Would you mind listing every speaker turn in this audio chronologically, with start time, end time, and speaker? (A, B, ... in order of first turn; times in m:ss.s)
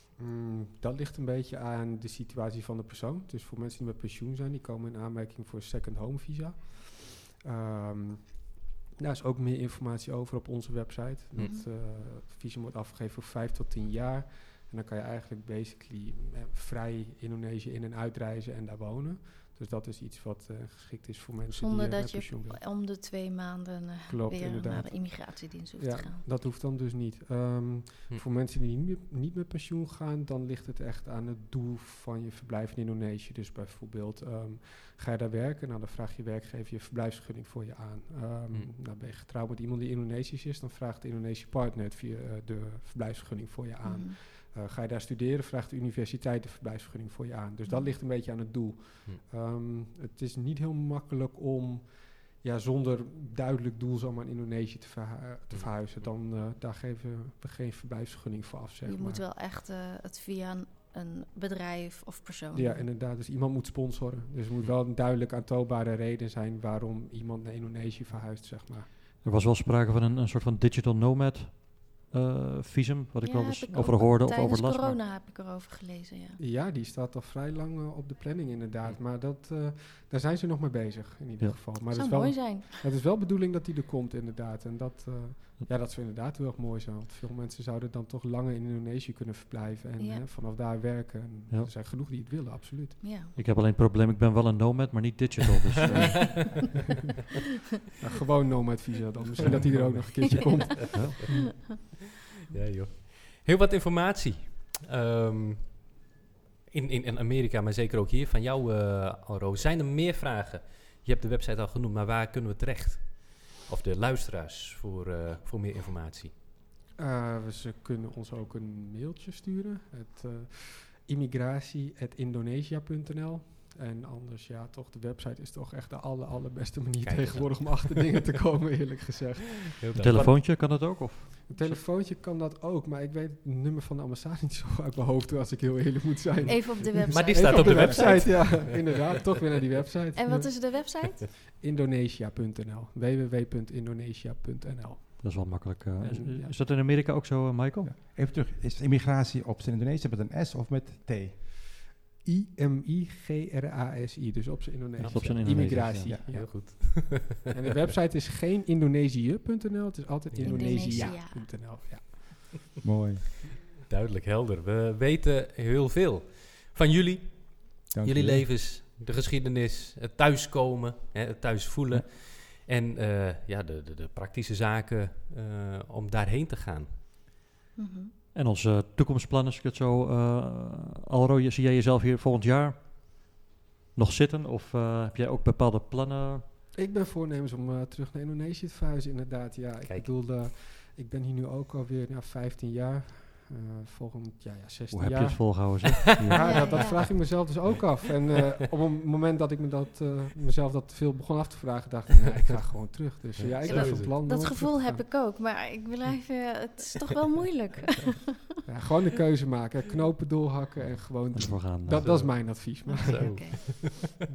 0:00.2-0:22.6 A
0:11.4-0:11.6 B
0:21.5-0:26.3 B
0:24.1-0:59.2 A
0:43.8-0:44.2 B
0:47.7-0:48.0 B
0:55.5-0:56.0 C
0:58.8-1:02.9 B
1:02.5-1:08.9 A
1:09.2-1:15.0 D
1:13.2-1:16.4 B
1:16.4-1:33.0 A
1:21.8-1:22.8 B
1:30.0-1:30.2 B
1:33.0-1:33.4 B
1:33.4-1:36.6 D
1:38.0-1:41.4 A
1:39.6-1:41.4 C
1:40.9-1:41.2 D
1:42.5-1:45.9 C
1:46.7-1:56.3 C
1:57.0-2:26.6 A
2:07.0-2:07.9 C
2:09.8-2:10.4 C
2:09.9-2:11.5 D
2:16.4-2:18.7 B
2:17.0-2:18.9 C
2:20.2-2:21.3 B
2:25.2-2:27.9 D
2:27.8-2:31.4 E
2:32.2-2:42.5 A
2:35.0-2:37.3 C
2:35.1-2:36.2 D
2:40.3-2:41.2 C
2:40.4-2:41.6 B
2:42.8-2:43.2 E
2:43.9-2:56.9 C
2:47.9-2:48.5 E
2:57.8-2:58.1 B
2:58.3-3:03.3 D
3:03.9-3:06.4 D
3:06.7-3:25.1 A
3:09.8-3:10.2 C
3:14.9-3:17.1 D
3:16.4-3:17.1 B
3:23.4-3:24.1 C
3:23.6-3:28.4 B
3:28.6-3:33.7 A
3:31.3-3:32.5 D
3:32.0-3:34.0 C
3:32.8-3:33.9 B